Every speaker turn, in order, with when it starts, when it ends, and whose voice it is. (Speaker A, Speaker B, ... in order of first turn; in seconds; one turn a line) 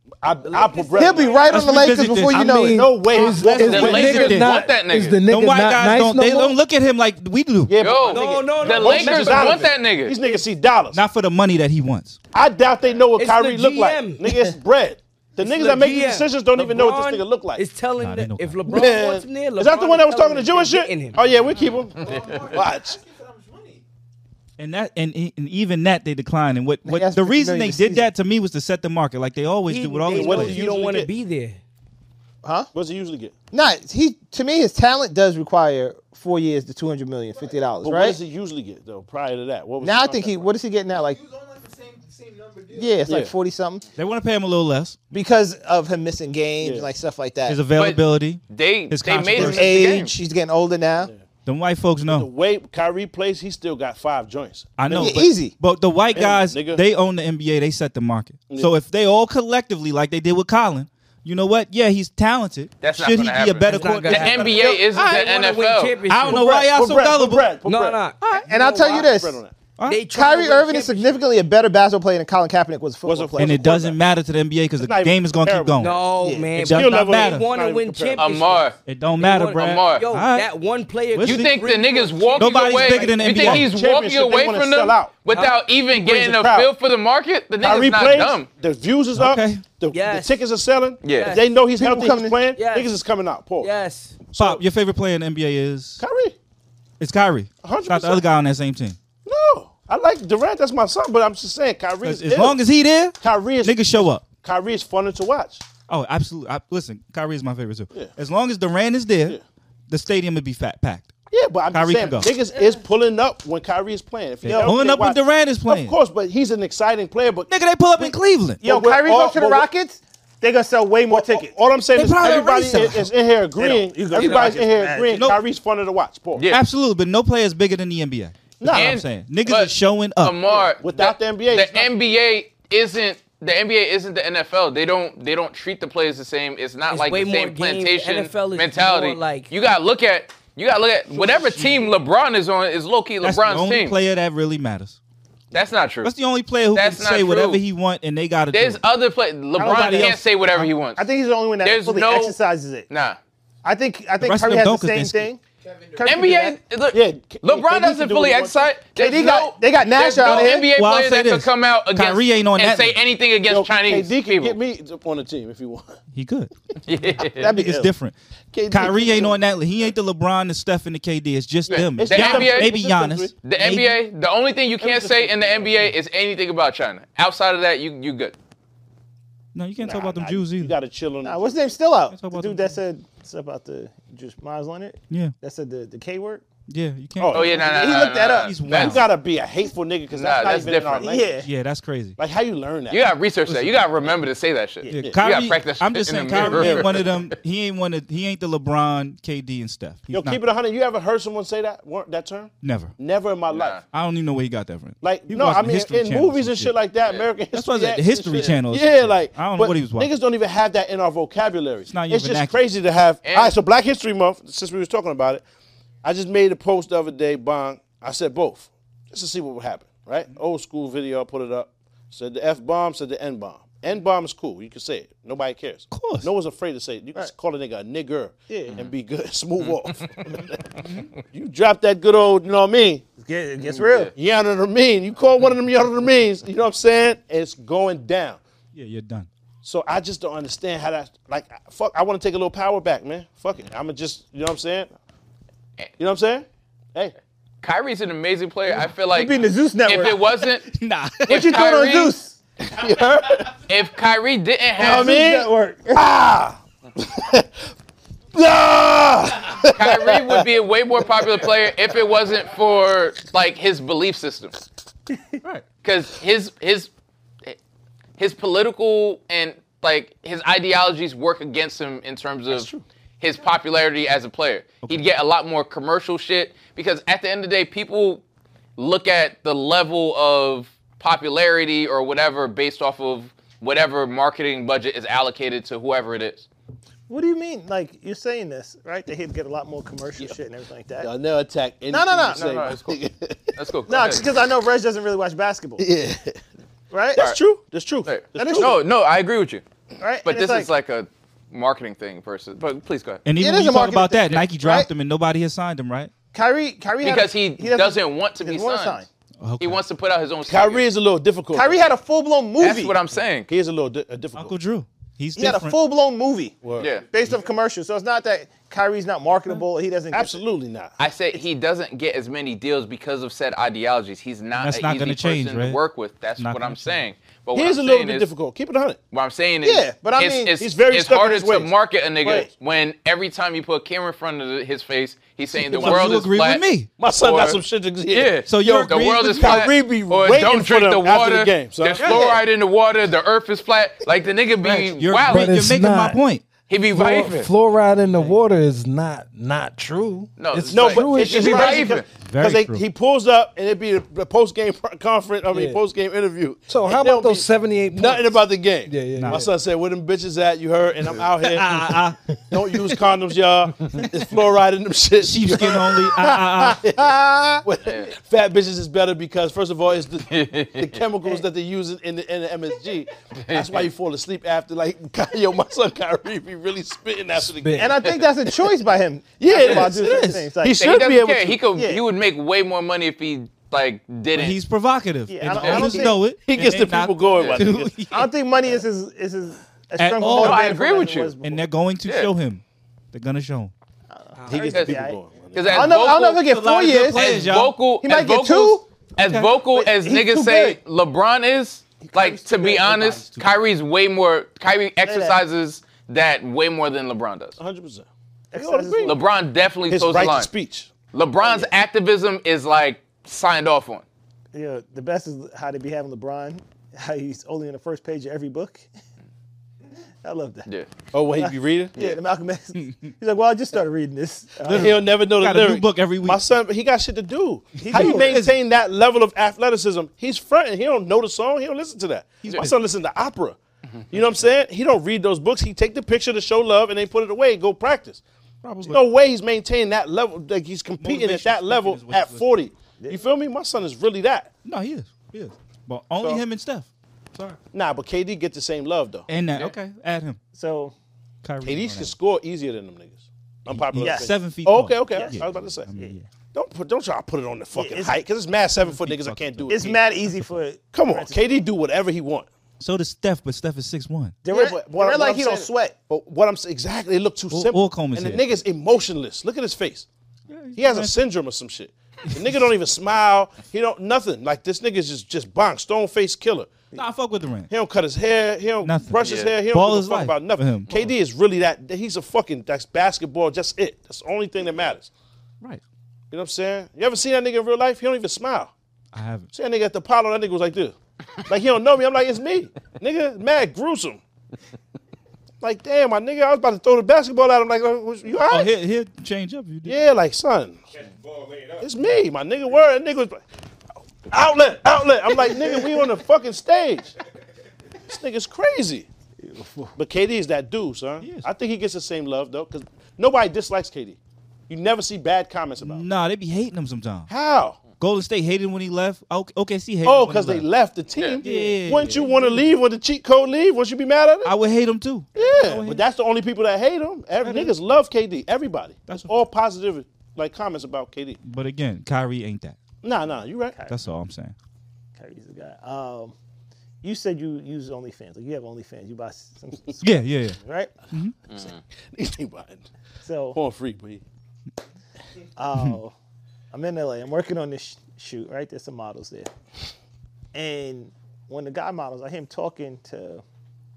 Speaker A: 0.2-4.3
Speaker B: 0.4-1.2
Speaker C: 0.9-3.5
Speaker D: 1.4-4.6
Speaker E: 2.1-6.6
Speaker F: 3.6-5.2
Speaker D: 5.3-7.8
Speaker A: 7.7-11.0
Speaker F: 7.8-10.2
Speaker B: 8.0-9.7
Speaker D: 10.9-12.2
Speaker A: 12.3-17.6
Speaker B: 13.1-14.3
Speaker B: 15.4-21.2
Speaker D: 18.0-18.6
Speaker A: 18.6-23.0
Speaker F: 22.0-22.4
Speaker G: 22.0-23.8
Speaker D: 24.6-30.6
Speaker C: 26.8-28.1
Speaker B: 29.7-31.6
Speaker A: 30.1-31.1
Speaker C: 32.4-32.7
Speaker A: 32.7-33.3
Speaker C: 33.5-38.2
Speaker A: 37.8-40.5
Speaker C: 39.8-41.2
Speaker G: 41.2-42.9
Speaker C: 42.7-43.9
Speaker A: 43.0-43.3
Speaker D: 44.0-45.0
Speaker C: 45.1-47.6
Speaker A: 46.6-46.9
Speaker D: 47.5-49.8
Speaker F: 47.8-50.1
Speaker C: 49.4-51.1
Speaker D: 51.4-52.3
Speaker A: 52.0-55.2
Speaker D: 54.8-64.8
Speaker C: 54.9-55.5
Speaker A: 56.1-56.8
Speaker F: 62.8-66.0
Speaker B: 63.7-66.5
Speaker D: 66.0-67.5
Speaker C: 66.3-66.7
Speaker A: 66.5-69.5
Speaker B: 67.6-69.0
Speaker C: 68.2-69.4
Speaker D: 69.8-70.1
Speaker B: 69.8-71.1
Speaker C: 70.1-73.9
Speaker A: 73.0-74.0
Speaker D: 73.4-76.0
Speaker A: 74.8-78.6
Speaker B: 75.8-81.5
Speaker C: 76.2-76.5
Speaker D: 76.5-77.5
Speaker F: 78.2-78.8
Speaker D: 78.8-80.5
Speaker F: 79.5-80.0
Speaker D: 81.1-81.5
Speaker F: 81.2-88.5
Speaker A: 81.5-85.1
Speaker D: 82.4-83.7
Speaker B: 85.3-85.6
Speaker A: 85.9-86.7
Speaker A: 87.6-93.7
Speaker D: 89.1-89.6
Speaker B: 89.9-90.4
Speaker F: 91.0-91.4
Speaker B: 91.0-91.5
Speaker C: 91.8-92.4
Speaker B: 92.5-92.9
Speaker B: 93.6-94.2
Speaker A: 94.3-94.6
Speaker D: 94.3-96.0
Speaker A: 96.0-96.3
Speaker D: 97.0-99.0
Speaker A: 97.6-98.2
Speaker A: 99.2-102.6
Speaker D: 102.0-104.2
Speaker A: 103.2-105.6
Speaker D: 105.9-109.4
Speaker D: 109.9-111.1
Speaker A: 111.3-119.7
Speaker D: 111.7-112.3
Speaker D: 114.4-116.0
Speaker C: 114.4-114.8
Speaker D: 117.5-118.6
Speaker C: 118.6-121.5
Speaker A: 121.1-126.5
Speaker D: 121.9-123.1
Speaker C: 123.5-125.2
Speaker F: 124.2-124.5
Speaker D: 125.1-125.4
Speaker F: 126.4-126.6
Speaker D: 126.5-130.4
Speaker A: 128.6-128.9
Speaker F: 128.7-143.9
Speaker A: 130.8-131.9
Speaker B: 136.9-139.5
Speaker D: 141.2-141.8
Speaker D: 143.2-145.0
Speaker F: 145.5-146.1
Speaker D: 146.0-148.8
Speaker F: 146.7-147.6
Speaker F: 148.5-151.1
Speaker D: 149.6-150.7
Speaker C: 149.6-150.2
Speaker C: 151.0-152.9
Speaker F: 151.6-152.4
Speaker F: 152.9-153.2
Speaker C: 153.6-155.4
Speaker D: 154.2-155.3
Speaker G: 155.7-156.1
Speaker C: 156.0-156.6
Speaker F: 156.0-164.6
Speaker A: 156.9-158.7
Speaker C: 158.9-160.7
Speaker D: 160.6-163.0
Speaker A: 163.5-166.0
Speaker D: 166.1-166.5
Speaker F: 166.8-167.5
Speaker C: 167.4-167.9
Speaker D: 167.5-168.1
Speaker A: 168.5-169.4
Speaker D: 168.7-173.9
Speaker F: 171.7-172.7
Speaker A: 172.0-173.3
Speaker F: 173.4-178.3
Speaker A: 174.8-175.7
Speaker D: 179.5-180.7
Speaker A: 179.8-181.6
Speaker C: 181.2-186.4
Speaker D: 182.1-182.7
Speaker D: 186.7-187.5
Speaker A: 187.2-187.8
Speaker F: 187.3-189.0
Speaker C: 187.5-188.6
Speaker D: 188.3-189.1
Speaker A: 188.7-191.3
Speaker F: 190.1-191.1
Speaker C: 191.0-191.5
Speaker D: 191.4-192.2
Speaker A: 192.2-193.0
Speaker F: 192.9-197.3
Speaker D: 194.9-200.4
Speaker A: 196.3-197.1
Speaker A: 200.1-203.8
Speaker D: 202.6-202.9
Speaker F: 203.5-203.8
Speaker D: 203.9-206.8
Speaker A: 205.0-215.4
Speaker D: 207.5-210.1
Speaker D: 211.9-212.6
Speaker F: 213.2-213.5
Speaker A: 216.0-230.6
Speaker D: 225.9-226.3
Speaker C: 228.5-228.8
Speaker F: 229.6-230.3
Speaker A: 231.3-233.0
Speaker C: 233.2-234.1
Speaker F: 233.8-234.1
Speaker A: 234.2-238.4
Speaker D: 238.7-239.3
Speaker A: 239.6-244.9
Speaker A: 246.0-247.1
Speaker F: 247.6-250.7
Speaker C: 249.0-250.5
Speaker D: 250.7-251.3
Speaker C: 251.3-252.3
Speaker F: 251.3-252.2
Speaker A: 252.6-253.6
Speaker F: 253.6-255.1
Speaker C: 254.8-256.0
Speaker A: 254.8-257.5
Speaker A: 258.3-260.5
Speaker F: 259.8-264.6
Speaker A: 261.3-261.5
Speaker F: 265.8-266.9
Speaker F: 268.2-272.7
Speaker A: 272.5-272.8
Speaker F: 273.2-278.2
Speaker F: 278.8-286.4
Speaker C: 287.1-291.1
Speaker A: 291.0-293.5
Speaker C: 291.9-292.5
Speaker F: 292.3-293.0
Speaker F: 293.6-294.2
Speaker C: 293.9-295.8
Speaker A: 295.8-296.4
Speaker C: 296.9-297.2
Speaker A: 297.1-298.8
Speaker F: 298.1-299.6
Speaker C: 298.4-298.8
Speaker C: 300.0-300.7
Speaker F: 300.2-303.2
Speaker D: 303.2-306.1
Speaker C: 303.4-304.9
Speaker C: 306.3-309.1
Speaker F: 307.0-309.0
Speaker D: 309.4-309.8
Speaker F: 309.6-310.9
Speaker A: 310.5-311.8
Speaker C: 311.5-313.0
Speaker F: 312.6-313.5
Speaker A: 313.5-314.6
Speaker D: 314.4-315.8
Speaker C: 315.4-316.6
Speaker A: 316.6-316.9
Speaker F: 316.8-317.1
Speaker C: 317.1-320.4
Speaker A: 320.1-321.0
Speaker F: 321.0-328.3
Speaker D: 324.5-325.8
Speaker D: 326.4-327.0
Speaker A: 327.5-329.0
Speaker F: 329.1-337.6
Speaker C: 329.6-330.5
Speaker A: 330.6-331.7
Speaker C: 332.2-332.5
Speaker D: 335.7-336.9
Speaker C: 335.7-336.1
Speaker A: 337.0-342.4
Speaker F: 338.1-345.5
Speaker D: 338.5-339.7
Speaker D: 342.0-342.4
Speaker D: 344.6-346.4
Speaker E: 345.3-346.2
Speaker F: 346.7-347.5
Speaker E: 346.9-351.9
Speaker D: 348.1-348.4
Speaker F: 350.4-352.1
Speaker A: 350.7-361.9
Speaker D: 352.1-352.8
Speaker E: 355.5-355.8
Speaker E: 356.7-359.5
Speaker D: 359.2-359.4
Speaker D: 361.4-362.7
Speaker A: 362.5-367.1
Speaker D: 365.2-367.1
Speaker C: 367.4-367.6
Speaker A: 367.6-378.0
Speaker F: 367.8-368.1
Speaker F: 370.3-371.0
Speaker F: 373.5-373.9
Speaker E: 377.4-378.0
Speaker C: 377.8-380.9
Speaker A: 379.4-381.6
Speaker D: 380.1-380.4
Speaker F: 380.7-384.6
Speaker C: 381.7-382.0
Speaker D: 384.3-388.2
Speaker C: 385.3-386.2
Speaker F: 385.6-385.9
Speaker A: 385.6-388.0
Speaker C: 388.1-391.6
Speaker D: 390.0-390.7
Speaker F: 390.3-391.3
Speaker D: 391.4-392.6
Speaker F: 392.1-392.3
Speaker D: 393.1-393.7
Speaker C: 394.1-397.3
Speaker B: 394.4-394.7
Speaker A: 394.5-396.0
Speaker F: 395.5-396.4
Speaker D: 396.4-397.8
Speaker F: 397.1-407.6
Speaker C: 398.0-398.8
Speaker D: 399.2-399.5
Speaker C: 399.7-400.8
Speaker C: 402.0-403.3
Speaker D: 403.2-403.5
Speaker C: 405.0-405.4
Speaker A: 407.6-409.2
Speaker C: 408.5-409.2
Speaker F: 409.0-410.5
Speaker A: 409.9-410.9
Speaker F: 411.1-414.0
Speaker C: 411.4-411.7
Speaker C: 414.5-418.9
Speaker C: 420.2-420.7
Speaker A: 421.1-421.9
Speaker C: 421.3-425.0
Speaker D: 422.8-423.1
Speaker A: 424.7-433.6
Speaker D: 424.7-426.4
Speaker C: 427.8-428.4
Speaker D: 427.8-428.6
Speaker D: 432.4-432.7
Speaker A: 434.1-438.2
Speaker D: 438.6-439.0
Speaker A: 438.9-444.5
Speaker D: 441.0-442.5
Speaker D: 444.6-447.6
Speaker A: 447.7-449.3
Speaker D: 449.3-450.4
Speaker C: 450.5-450.9
Speaker D: 451.4-452.1
Speaker A: 451.6-455.9
Speaker D: 453.7-456.2
Speaker C: 454.0-454.3
Speaker A: 456.5-460.0
Speaker C: 457.7-458.1
Speaker D: 458.9-459.9
Speaker C: 459.7-461.6
Speaker A: 460.9-462.5
Speaker D: 462.8-464.4
Speaker C: 464.4-465.9
Speaker A: 464.5-470.1
Speaker D: 467.5-468.4
Speaker D: 470.5-471.1
Speaker A: 470.8-476.7
Speaker D: 472.4-472.6
Speaker D: 476.9-477.7
Speaker A: 477.7-485.1
Speaker D: 478.8-481.1
Speaker F: 479.2-479.5
Speaker A: 486.3-488.7
Speaker D: 489.1-489.5
Speaker A: 489.5-494.2
Speaker A: 495.6-498.7
Speaker D: 498.4-499.9
Speaker A: 499.8-500.8
Speaker G: 501.3-501.6
Speaker A: 501.8-503.4
Speaker A: 504.3-507.1
Speaker A: 508.1-509.1
Speaker C: 509.4-509.9
Speaker A: 509.9-514.2
Speaker D: 511.2-511.5
Speaker A: 514.7-516.0
Speaker D: 515.8-517.3
Speaker A: 517.3-517.8
Speaker D: 518.0-520.7
Speaker A: 520.0-524.5
Speaker D: 521.4-522.7
Speaker D: 524.4-526.0
Speaker A: 525.3-531.4
Speaker D: 527.4-527.7
Speaker D: 529.1-529.4
Speaker D: 531.4-532.8
Speaker A: 533.0-533.8
Speaker D: 533.9-534.5
Speaker C: 535.2-536.3
Speaker C: 537.0-540.9
Speaker D: 540.0-540.6
Speaker F: 541.5-541.8
Speaker A: 541.5-542.9
Speaker C: 543.2-543.6
Speaker A: 543.5-544.2
Speaker C: 545.6-546.1
Speaker C: 546.7-549.5
Speaker C: 550.5-553.4